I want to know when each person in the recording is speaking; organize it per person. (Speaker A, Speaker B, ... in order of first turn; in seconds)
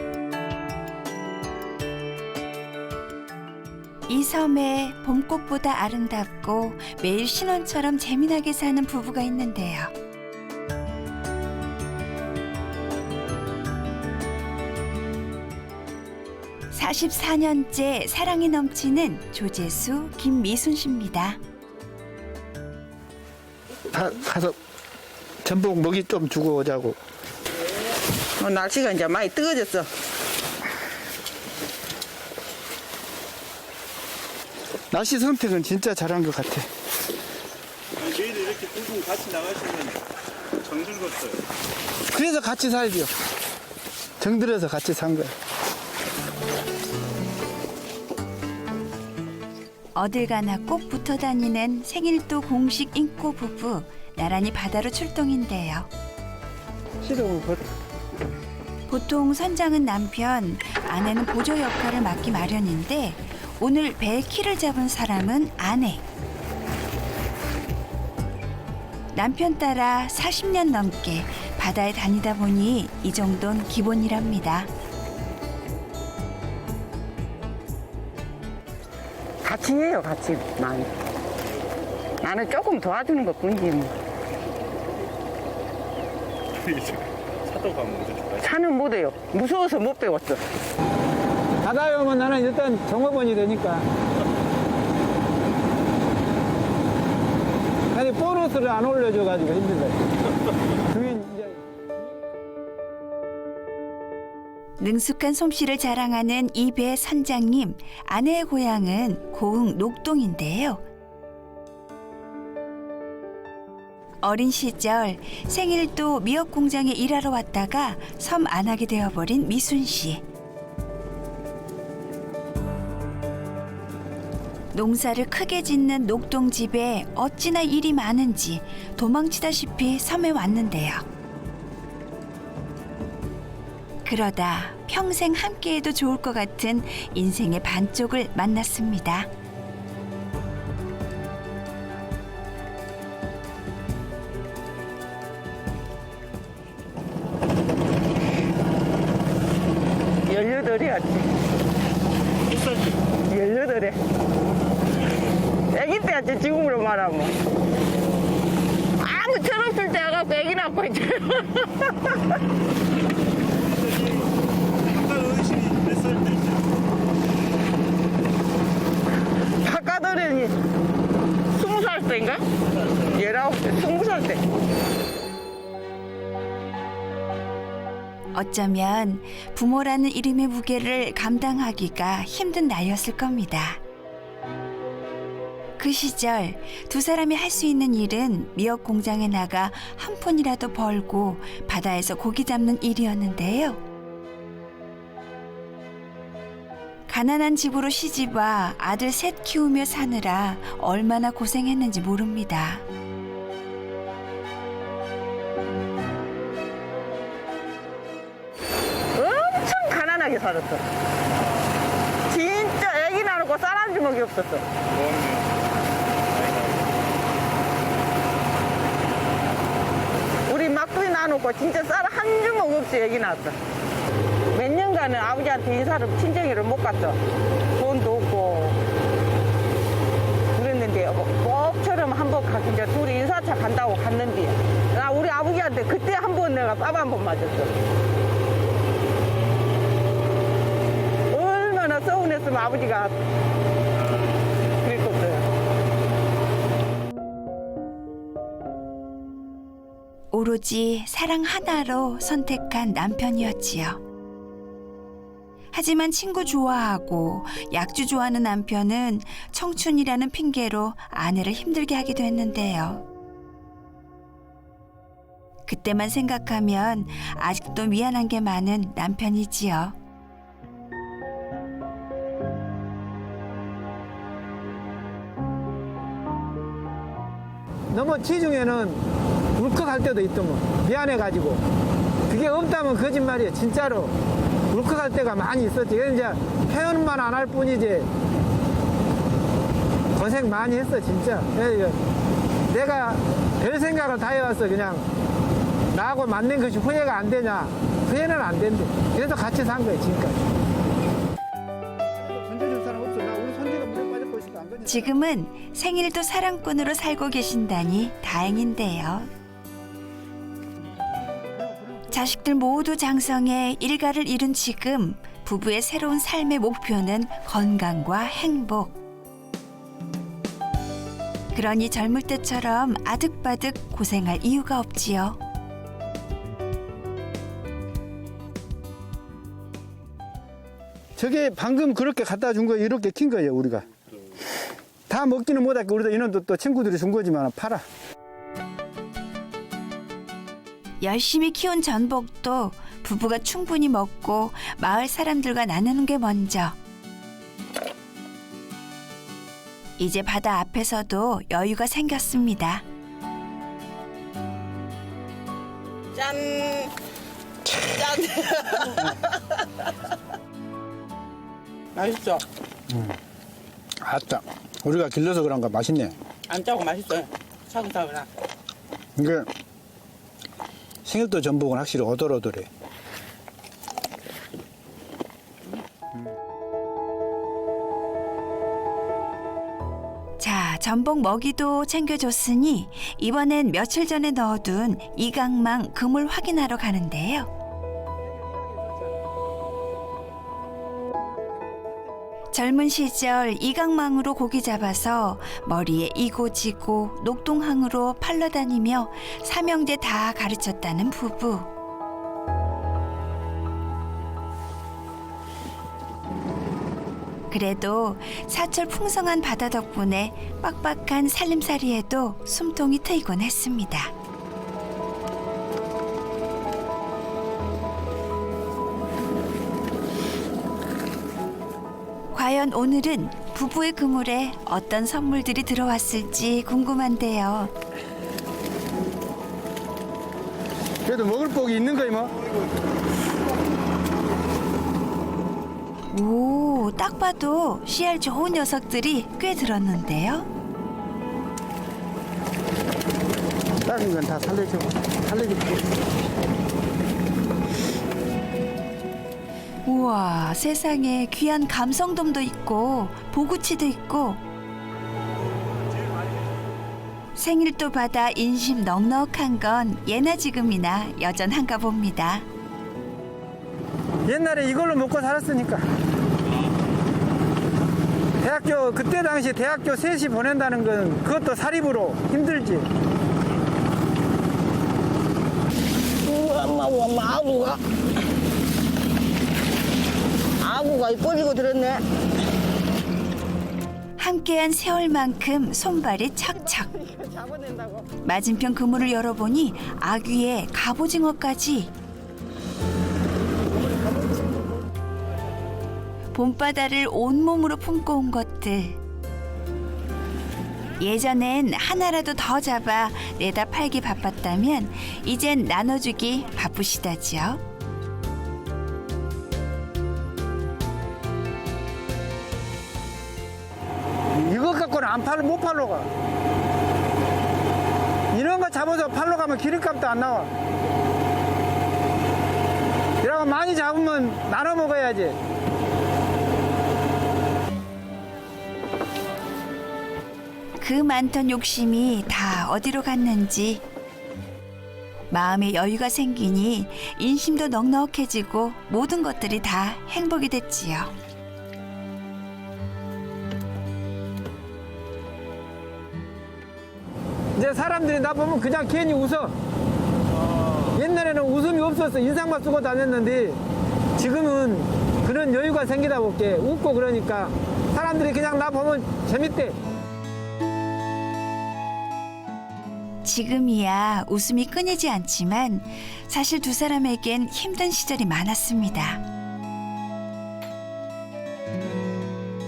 Speaker A: 4.1-9.9, 16.7-21.4, 49.9-55.9, 58.9-66.0, 69.1-74.7, 104.8-110.8, 114.2-120.2, 124.7-131.1, 134.0-139.3, 178.3-183.8, 185.8-193.8, 197.1-202.8, 250.3-254.0, 255.7-263.0, 265.7-269.9, 304.9-309.3, 312.1-319.0, 321.5-325.4, 341.0-346.8, 350.0-352.8, 380.4-387.5, 392.5-401.7, 407.5-414.1, 422.3-427.7, 436.1-440.5, 449.9-454.4, 457.4-462.4, 484.2-486.9, 488.2-491.9, 496.3-499.0, 501.0-507.6, 530.8-533.8, 535.3-541.1, 563.2-569.2
Speaker B: 23.9-24.6, 25.4-27.0, 34.9-36.7, 42.1-43.1, 44.2-45.3, 57.0-57.6, 91.6-93.9, 97.9-100.0, 100.9-101.6, 277.9-279.0, 279.6-281.6, 282.3-284.1, 284.7-288.1, 290.1-292.0, 292.7-295.1, 295.9-300.4, 302.1-305.2, 331.1-333.9, 335.1-337.8, 362.9-363.2, 364.0-366.1, 369.2-369.5, 371.0-372.7, 431.0-432.3, 443.8-445.8, 464.2-465.9, 468.4-472.9, 514.3-516.1, 518.3-520.5, 523.2-525.4, 547.5-549.5, 550.9-553.6, 554.1-559.8
Speaker C: 28.4-29.9, 79.4-80.9, 82.2-83.9, 88.4-90.4, 150.2-151.3, 153.3-154.0, 155.7-157.3, 159.0-162.2, 169.6-170.6, 171.5-172.4, 173.1-174.4, 209.1-210.8, 212.3-214.7, 220.5-223.6, 224.5-227.2, 227.8-228.8, 230.5-237.7, 241.3-243.1, 244.8-245.5, 356.1-356.9, 357.6-359.4, 361.9-362.4, 366.5-368.3, 476.2-477.8, 480.6-482.1, 486.6-488.1
Speaker D: 38.0-41.5, 86.5-88.5, 152.5-153.0, 154.8-155.4, 163.4-166.7, 172.8-173.2, 211.4-211.8, 214.9-217.1, 455.9-456.6